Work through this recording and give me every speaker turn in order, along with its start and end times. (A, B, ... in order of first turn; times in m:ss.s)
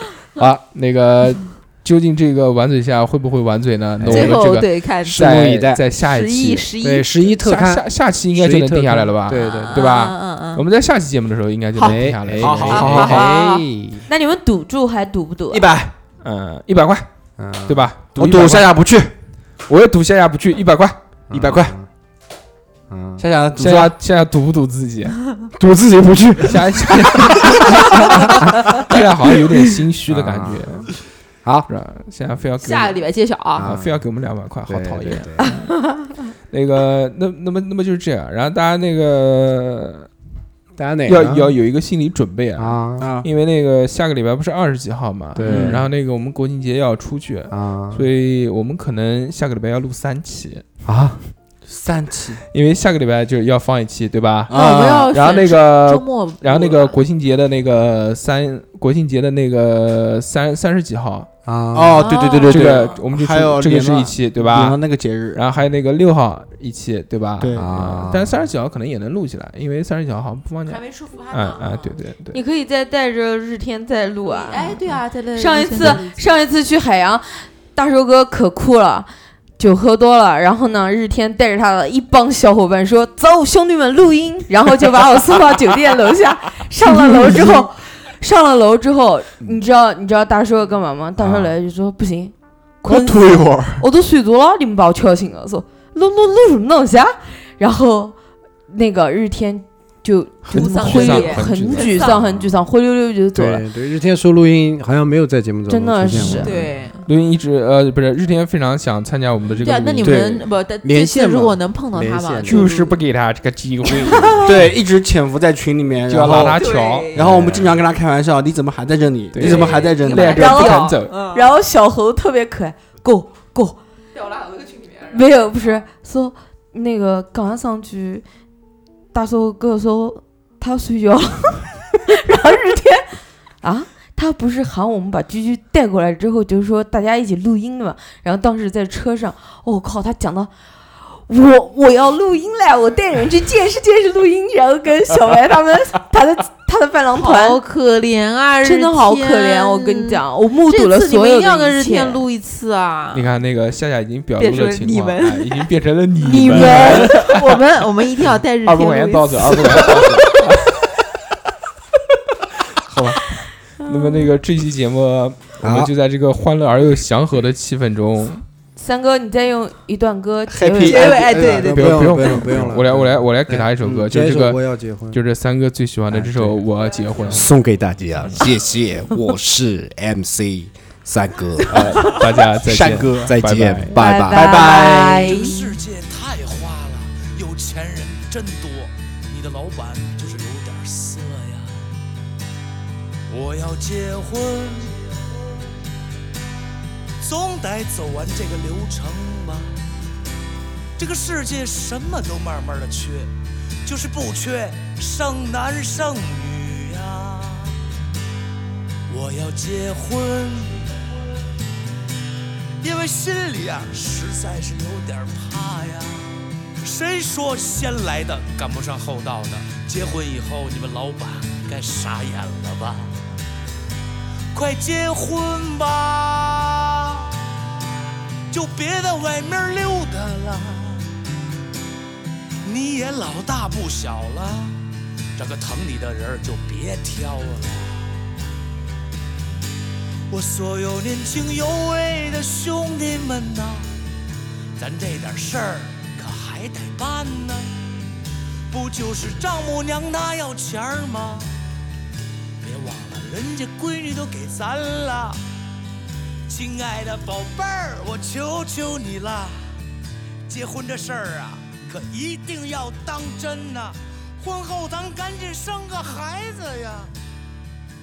0:00.7-0:06.7 A
0:04.0-0:05.8 B
0:04.1-0:05.3 C
0:06.0-0:07.2 C
0:06.8-0:09.8 B
0:07.4-0:13.2 A
0:09.3-0:10.6 C
0:11.8-0:12.0 C
0:11.8-0:14.1 B
0:12.4-0:13.3 D
0:12.6-0:13.7 C
0:14.1-0:15.7 E
0:15.5-0:15.9 D
0:16.2-0:17.1 A
0:17.4-0:17.9 B
0:17.6-0:18.7 A
0:18.2-0:19.1 D
0:19.7-0:21.0 A
0:21.3-0:21.9 B
0:21.3-0:21.7 D
0:22.9-0:23.2 B
0:23.2-0:23.9 D
0:23.6-0:25.2 A
0:25.6-0:28.0 B
0:26.4-0:30.9 A
0:30.1-0:30.9 B
0:31.4-0:31.7 B
0:31.7-0:33.0 A
0:32.6-0:33.7 C
0:33.6-0:34.0 B
0:33.6-0:35.6 A
0:34.7-0:35.5 B
0:36.5-0:40.1 A
0:40.8-0:41.5 B
0:41.1-0:50.6 A
0:42.6-0:43.1 B
0:43.0-0:43.3 D
0:45.4-0:45.8 B
0:45.4-0:45.8 D
0:47.5-0:48.1 B
0:50.8-0:51.2 B
0:51.7-0:52.4 D
0:52.5-1:01.3 A
0:54.5-0:55.1 D
0:54.5-0:57.0 C
1:01.5-1:02.0 B
1:01.7-1:05.4 D
1:02.0-1:03.0 C
1:02.5-1:04.8 A
1:05.3-1:12.4 A
1:07.4-1:07.7 D
1:07.5-1:08.3 B
1:10.7-1:12.0 C
1:12.3-1:38.2 E
1:14.2-1:16.3 C
1:31.2-1:31.5 B
1:32.9-1:33.8 D
1:38.7-1:43.6 E
1:40.4-1:42.1 A
1:40.5-1:42.2 C
1:42.2-1:42.7 B
1:43.3-1:46.7 B
1:45.7-1:46.6 E
1:46.4-1:47.1 C
1:47.0-1:50.2 A
1:49.6-1:53.0 C
1:50.0-1:50.4 D
1:50.8-1:52.7 B
1:52.5-1:54.6 A
1:54.0-1:54.4 C
1:54.1-1:54.4 B
1:54.4-2:00.7 D
1:56.1-1:57.1 A
1:56.6-1:57.2 C
1:57.2-1:57.8 B
1:59.3-2:01.2 A
1:59.4-2:01.5 C
2:00.2-2:03.8 E
2:04.1-2:05.7 C
2:05.1-2:08.2 E
2:09.1-2:13.0 E
2:13.6-2:20.5 E
2:21.0-2:27.6 E
2:27.2-2:33.3 C
2:28.6-2:32.2 E
2:33.1-2:37.6 A
2:34.4-2:40.4 C
2:36.2-2:37.3 E
2:38.6-2:40.8 A
2:42.8-2:43.2 D
2:43.8-2:48.4 A
2:43.9-2:44.3 E
2:45.6-2:45.9 B
2:48.8-2:51.5 E
2:50.5-2:52.0 D
2:50.8-2:52.0 C
2:51.5-2:55.2 B
2:51.7-2:57.6 A
2:56.1-2:56.6 B
2:57.3-3:01.8 B
2:58.2-2:58.5 A
3:01.7-3:04.0 A
3:02.6-3:03.4 D
3:03.2-3:04.5 B
3:03.9-3:05.8 E
3:04.3-3:05.4 D
3:05.2-3:11.8 F
3:13.3-3:15.2 F
3:17.2-3:19.8 F
3:21.0-3:23.3 F
3:23.8-3:27.8 F
3:29.1-3:31.0 F
3:32.8-3:43.3 F
3:44.5-3:47.3 F
3:48.5-3:51.1 F
3:52.6-3:58.2 F
4:00.3-4:03.9 F
4:04.8-4:08.1 F
4:08.7-4:11.6 F
4:12.6-4:15.4 F
4:16.5-4:19.7 F
4:20.5-4:27.1 F